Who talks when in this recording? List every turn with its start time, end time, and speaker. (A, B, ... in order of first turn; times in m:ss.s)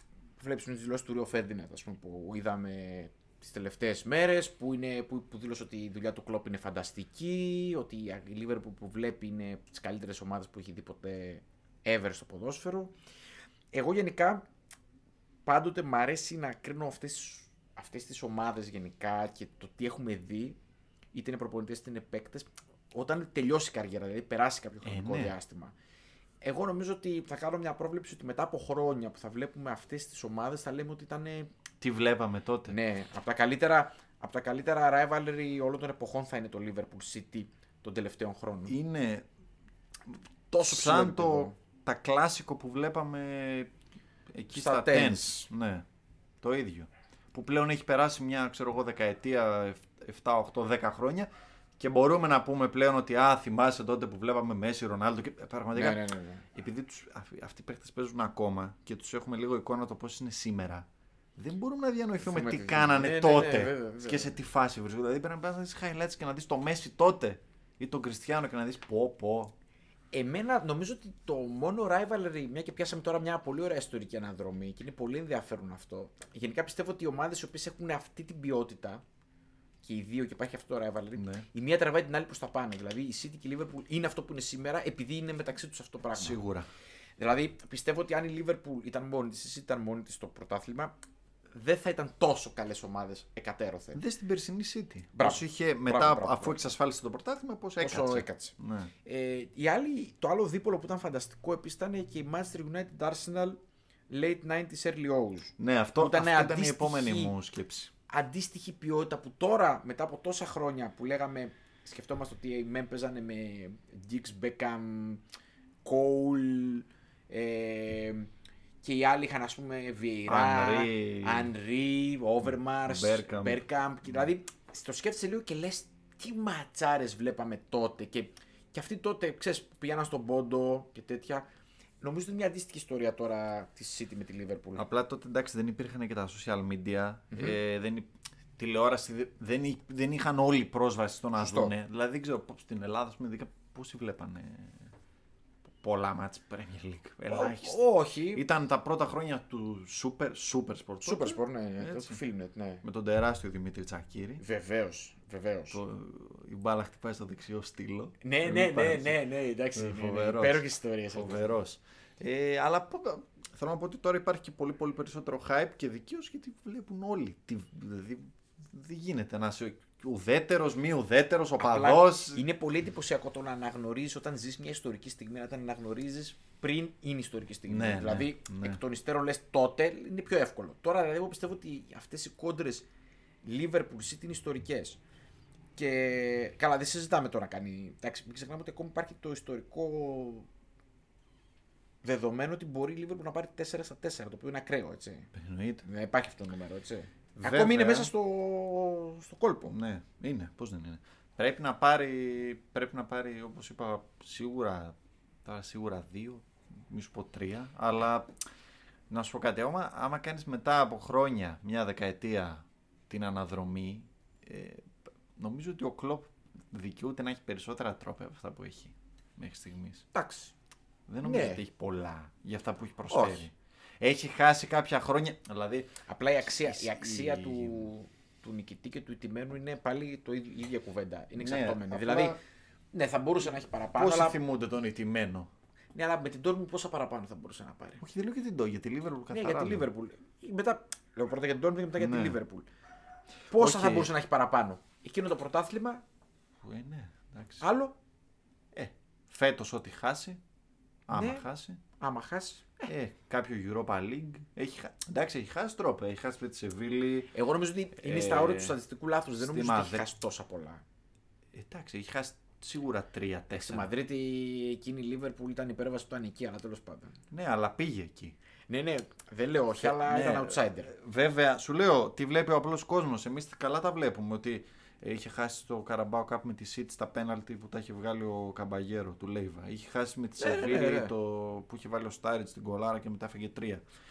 0:00.4-0:12.9 A
0:13.7-0:14.5 A
0:15.4-0:20.6 A
0:21.1-0:25.7 A
0:24.8-0:25.4 B
0:26.4-0:31.5 A
0:31.8-0:32.8 B
0:32.7-0:38.8 A
0:38.7-0:39.3 B
0:40.1-0:43.7 B
0:40.5-0:41.6 A
0:44.3-0:45.8 B
0:44.5-0:45.5 A
0:46.4-0:56.0 B
0:55.8-0:56.4 A
0:56.5-1:09.5 B
1:02.2-1:04.4 A
1:10.1-1:19.0 A
1:19.8-1:26.4 A
1:21.2-1:21.5 B
1:26.2-1:26.7 B
1:27.2-1:30.9 A
1:31.5-1:34.0 A
1:33.9-1:38.9 B
1:35.2-1:36.7 A
1:37.8-1:47.3 A
1:45.6-1:47.9 B
1:48.1-1:55.2 A
1:55.8-1:58.3 A
1:58.8-2:11.5 A
2:00.3-2:01.5 B
2:02.5-2:03.6 B
2:12.0-2:14.9 A
2:14.8-2:24.9 B
2:17.3-2:17.6 A
2:21.4-2:21.7 A
2:25.8-2:27.8 B
2:27.3-2:28.4 A
2:28.3-2:32.2 B
2:31.0-2:32.8 A
2:32.8-2:34.4 B
2:34.4-2:35.8 A
2:35.7-2:39.2 B
2:38.2-2:41.5 A
2:39.8-2:52.4 B
2:51.6-3:02.9 A
2:57.7-2:58.8 B
3:03.4-3:05.0 A
3:05.8-3:10.5 A
3:12.0-3:15.3 A
3:15.3-3:15.8 B
3:15.8-3:19.7 A
3:17.4-3:18.1 B
3:19.7-3:28.3 B
3:29.1-3:40.1 B
3:40.1-3:40.5 A
3:41.1-3:47.9 B
3:41.2-3:41.6 A
3:43.1-3:43.5 A
3:46.1-3:52.4 A
3:51.4-3:52.4 B
3:52.9-3:54.4 A
3:54.0-3:55.5 B
3:55.9-3:58.0 A
3:58.0-3:59.9 B
3:59.3-4:02.7 A
4:02.0-4:02.4 B
4:03.5-4:06.0 A
4:03.5-4:04.1 B
4:06.6-4:07.6 B
4:07.6-4:08.0 A
4:08.7-4:10.4 B
4:11.1-4:11.8 B
4:11.1-4:11.4 A
4:12.0-4:12.8 A
4:12.8-4:17.3 B
4:17.3-4:20.8 A
4:18.0-4:18.8 B
4:19.4-4:20.1 B
4:21.5-4:23.9 B
4:23.5-4:27.2 A
4:27.3-4:28.4 B
4:28.7-4:30.9 A
4:29.8-4:43.8 B
4:40.4-4:41.1 A